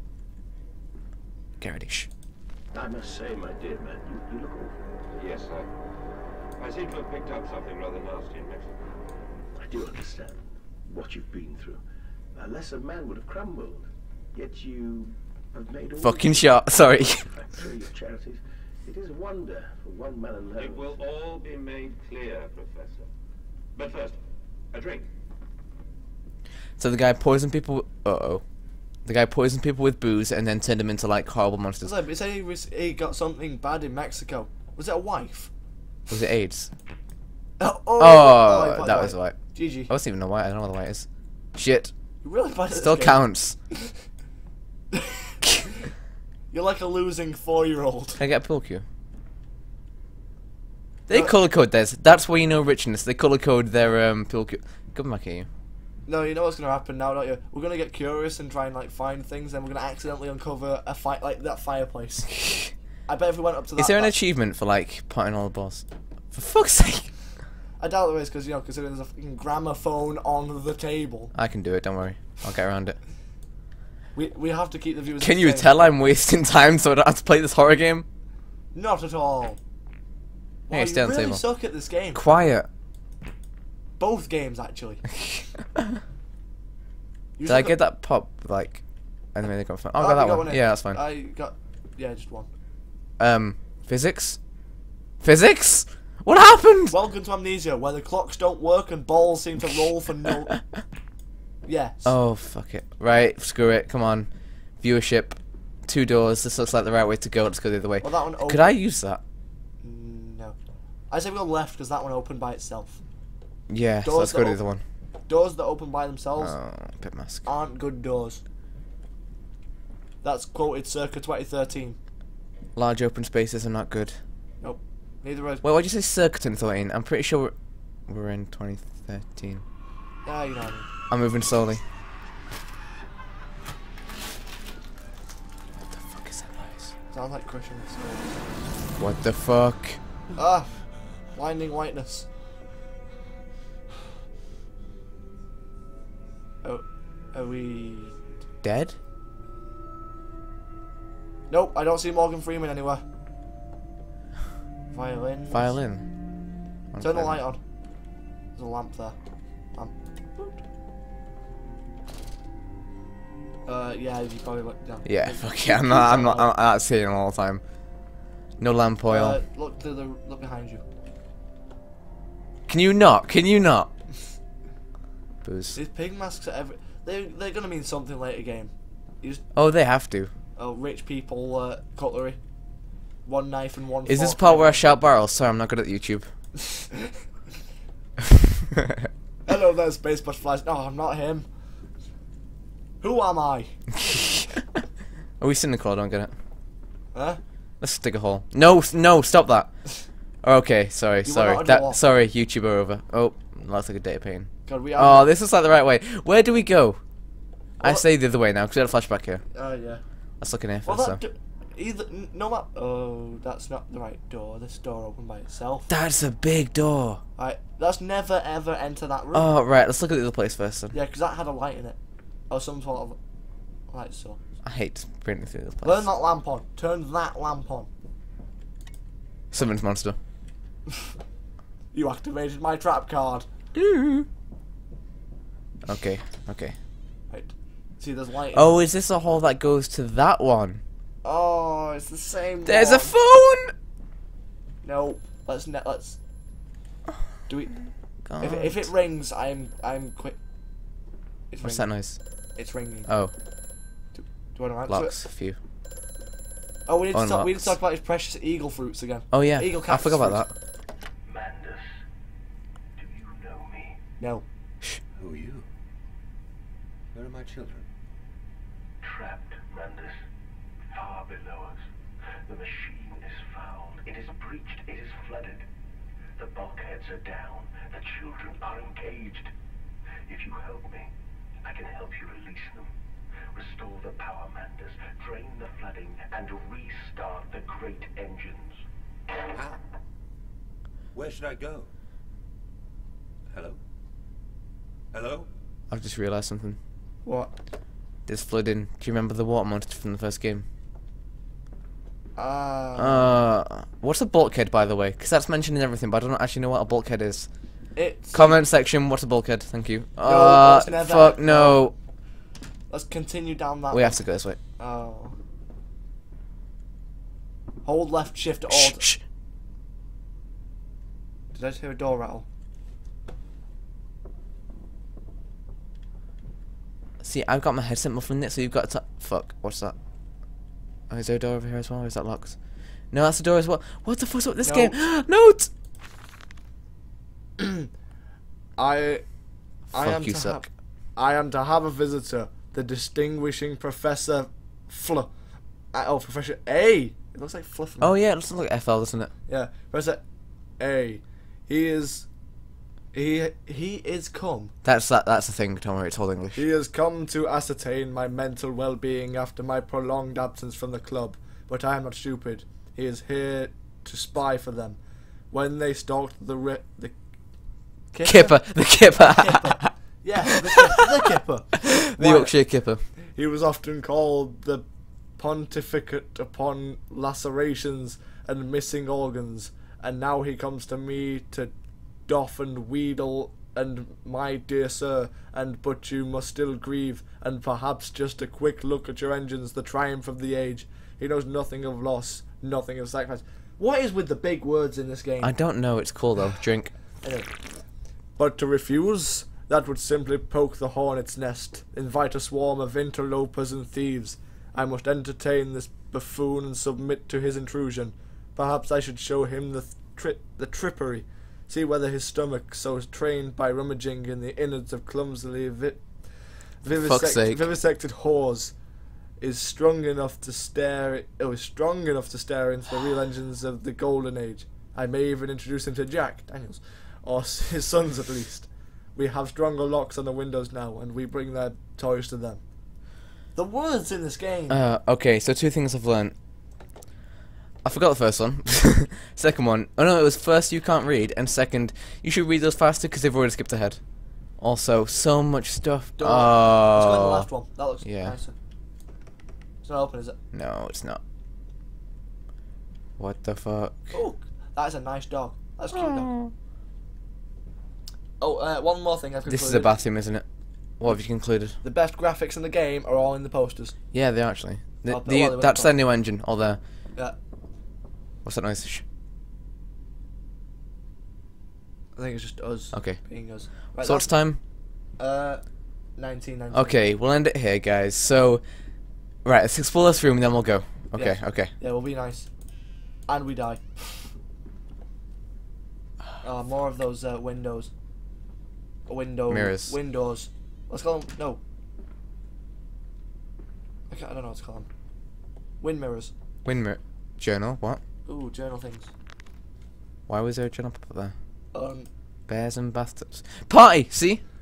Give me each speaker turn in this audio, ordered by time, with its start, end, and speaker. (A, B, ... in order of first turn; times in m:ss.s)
0:01.6-0:02.1 A
0:02.7-0:04.8 B
0:05.1-0:05.7 C
0:06.6-0:08.8 C
0:09.5-0:11.8 B
0:12.3-0:21.0 B
0:16.0-0:17.5 A
0:20.6-0:23.1 C
0:23.7-0:24.2 C
0:24.7-0:25.1 C
0:26.8-0:28.4 A
0:29.0-0:31.9 A
0:31.8-0:35.5 D
0:36.1-0:36.7 A
0:37.6-0:39.9 D
0:38.0-0:41.9 A
0:42.2-0:43.9 D
0:42.7-0:43.6 A
0:44.9-0:45.9 D
0:46.5-0:48.2 D
0:48.2-0:48.8 A
0:51.1-0:55.5 A
0:56.1-1:02.4 D
1:02.4-1:02.7 A
1:03.1-1:04.1 D
1:03.8-1:07.2 A
1:07.8-1:11.3 D
1:11.3-1:13.0 A
1:14.1-1:15.8 D
1:15.2-1:18.1 A
1:18.7-1:19.6 D
1:20.7-1:22.2 D
1:20.7-1:21.4 A
1:22.1-1:22.7 A
1:24.0-1:25.1 D
1:27.4-1:27.8 D
1:27.5-1:31.0 A
1:30.0-1:32.5 D
1:33.2-1:34.4 A
1:35.2-1:37.0 A
1:36.9-1:40.6 D
1:41.7-1:42.1 D
1:42.0-1:49.2 A
1:48.0-1:48.8 D
1:49.8-1:50.6 D
1:51.1-1:53.0 D
1:53.7-1:54.8 A
1:54.0-1:54.6 D
1:55.3-1:56.6 D
1:56.4-1:57.5 A
1:57.4-1:58.4 D
2:00.2-2:02.0 D
2:02.8-2:04.2 A
2:04.6-2:05.6 D
2:05.6-2:07.5 A
2:08.1-2:09.6 A
2:10.2-2:10.9 D
2:11.1-2:11.8 A
2:15.9-2:16.9 A
2:17.1-2:18.7 D
2:19.0-2:20.0 A
2:20.4-2:22.3 D
2:26.6-2:28.2 D
2:28.6-2:29.0 A
2:31.5-2:33.0 D
2:34.9-2:35.8 D
2:35.5-2:36.1 A
2:36.9-2:37.4 A
2:37.0-2:37.6 D
2:38.6-2:39.2 D
2:39.7-2:40.6 D
2:43.7-2:46.6 D
2:45.1-2:47.6 A
2:48.6-2:49.4 A
2:49.1-2:50.8 D
2:52.7-2:53.9 A
2:55.4-2:55.8 A
2:55.8-2:59.4 D
2:59.6-3:00.3 A
3:00.6-3:02.4 D
3:03.3-3:05.0 D
3:04.1-3:06.3 A
3:06.8-3:07.1 D
3:09.5-3:11.5 D
3:13.0-3:13.8 D
3:15.4-3:16.3 A
3:17.1-3:17.4 D
3:17.8-3:27.0 A
3:21.2-3:22.0 D
3:24.7-3:25.3 D
3:27.8-3:29.4 A
3:29.5-3:30.0 D
3:30.4-3:31.2 A
3:30.8-3:35.9 D
3:35.9-3:37.2 A
3:37.4-3:39.5 D
3:39.3-3:41.0 A
3:40.9-3:42.0 D
3:42.5-3:43.2 D
3:43.9-3:44.4 D
3:44.6-3:46.1 A
3:45.8-3:47.9 D
3:49.5-3:50.2 A
3:51.9-3:53.5 D
3:53.8-3:54.3 A
3:55.9-3:56.8 A
3:57.3-3:58.8 D
3:58.5-4:00.8 A
4:01.2-4:03.2 D
4:02.6-4:03.7 A
4:04.8-4:06.2 D
4:07.5-4:07.8 D
4:08.3-4:08.9 A
4:08.4-4:10.4 D
4:11.5-4:11.9 D
4:11.6-4:12.2 A
4:12.6-4:13.1 D
4:13.1-4:13.3 A
4:14.1-4:15.2 D
4:14.9-4:15.6 A
4:16.9-4:20.4 D
4:17.1-4:17.8 A
4:19.3-4:20.5 A
4:21.3-4:21.9 B
4:23.0-4:24.0 B
4:24.2-4:24.4 D
4:25.2-4:25.6 C
4:27.1-4:27.8 C
4:29.0-4:30.2 B
4:30.9-4:31.8 B
4:32.5-4:35.6 B
4:36.4-4:39.5 B
4:40.3-4:41.1 B
4:41.6-4:42.9 B
4:43.5-4:48.8 B
4:49.5-4:49.8 C
4:51.1-4:51.9 C
4:53.5-4:53.8 C
4:55.1-4:55.5 C
4:55.9-4:56.8 A
4:57.2-4:57.5 D
4:58.3-5:00.6 A
5:02.4-5:03.4 D
5:03.0-5:07.6 A
5:07.9-5:08.6 D
5:08.3-5:11.9 A
5:10.2-5:11.9 D
5:12.9-5:15.4 D
5:13.9-5:14.6 A
5:17.8-5:19.0 D
5:18.7-5:19.2 A
5:21.5-5:22.4 D
5:27.2-5:30.0 A
5:31.1-5:35.7 A
5:34.6-5:35.0 D
5:37.6-5:37.9 D
5:38.8-5:39.3 D
5:39.9-5:40.7 A
5:39.9-5:45.3 D
5:45.9-5:48.2 D
5:48.0-5:49.3 A
5:49.5-5:50.2 D
5:50.8-5:52.3 D
5:53.1-5:54.7 D
5:54.8-5:56.6 A
5:56.6-6:05.0 D
6:05.5-6:07.2 D
6:08.1-6:14.8 D
6:08.2-6:09.9 A
6:12.2-6:13.1 A
6:15.4-6:21.7 D
6:22.3-6:35.5 D
6:35.4-6:36.9 A
6:37.2-6:37.5 D
6:38.4-6:58.8 D
6:56.9-6:57.7 A
6:59.4-7:12.6 D
7:13.6-7:14.8 D
7:14.7-7:16.4 A
7:17.8-7:27.5 A
7:26.2-7:28.5 D
7:28.0-7:28.4 A
7:29.8-7:30.4 D
7:30.5-7:31.2 A
7:33.2-7:34.2 A
7:34.1-7:36.3 D
7:36.0-7:36.5 A
7:38.4-7:40.0 D
7:39.5-7:40.4 A
7:41.0-7:41.8 A
7:41.8-7:44.0 D
7:44.1-7:46.8 A
7:45.1-7:46.0 D
7:48.4-7:49.0 A
7:52.2-7:54.3 D
7:52.9-7:53.3 A
7:53.8-7:54.6 A
7:55.2-7:55.6 D
7:56.2-7:57.1 D
7:56.7-7:58.7 A
7:59.4-8:01.7 A
8:01.2-8:02.5 D
8:03.3-8:04.3 D
8:06.4-8:07.9 D
8:09.1-8:11.6 D
8:09.5-8:09.9 A
8:14.1-8:14.9 D
8:15.8-8:16.3 D
8:16.6-8:18.0 A
8:18.3-8:19.1 D
8:20.3-8:21.3 A
8:21.7-8:22.1 D
8:22.5-8:24.4 A